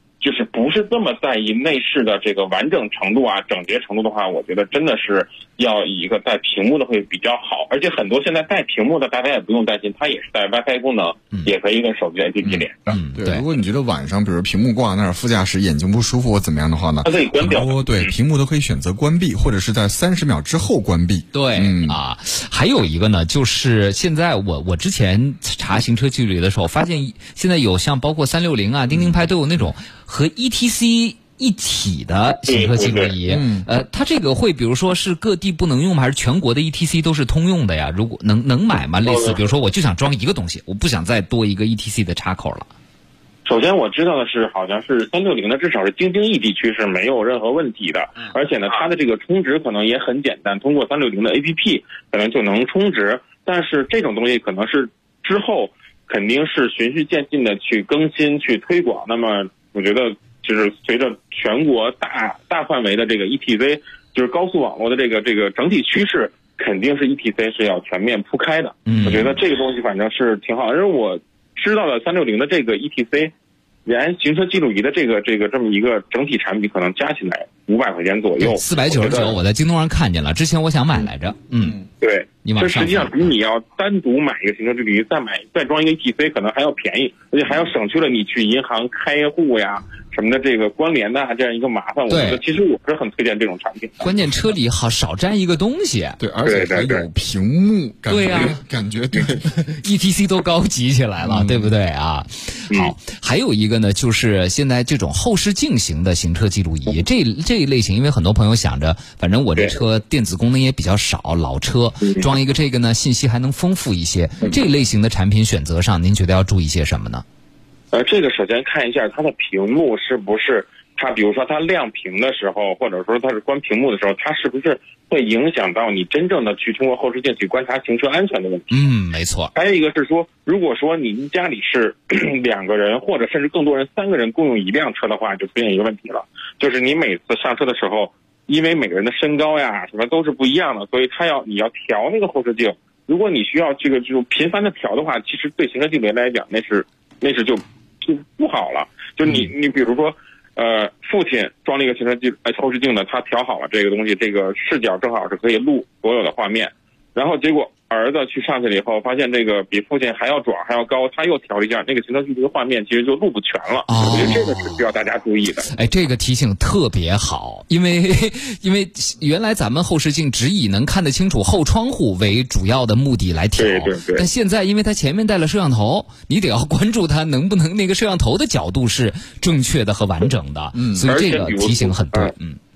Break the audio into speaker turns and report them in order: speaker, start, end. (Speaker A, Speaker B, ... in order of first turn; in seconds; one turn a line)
Speaker A: 0.2-13.0
Speaker B: 12.4-22.0
Speaker C: 12.9-13.4
Speaker A: 17.0-18.1
Speaker C: 21.3-42.7
Speaker B: 28.9-29.2
Speaker A: 32.5-33.1
Speaker B: 33.3-33.7
Speaker A: 39.1-39.4
Speaker A: 43.5-73.3
Speaker C: 68.9-69.4
Speaker A: 73.9-79.3
Speaker C: 78.4-81.8
Speaker A: 82.0-94.1
Speaker C: 82.5-83.3
Speaker C: 92.1-92.4
Speaker C: 94.0-96.2
Speaker B: 96.2-99.5
Speaker A: 96.4-97.0
Speaker C: 98.1-98.6
Speaker C: 99.3-117.2
Speaker B: 101.2-101.7
Speaker A: 112.0-112.3
Speaker A: 117.9-128.8
Speaker C: 128.7-129.5
Speaker A: 129.6-165.7
Speaker C: 163.9-164.8
Speaker C: 165.7-182.6
Speaker A: 173.6-174.3
Speaker B: 180.8-181.1
Speaker A: 181.1-182.3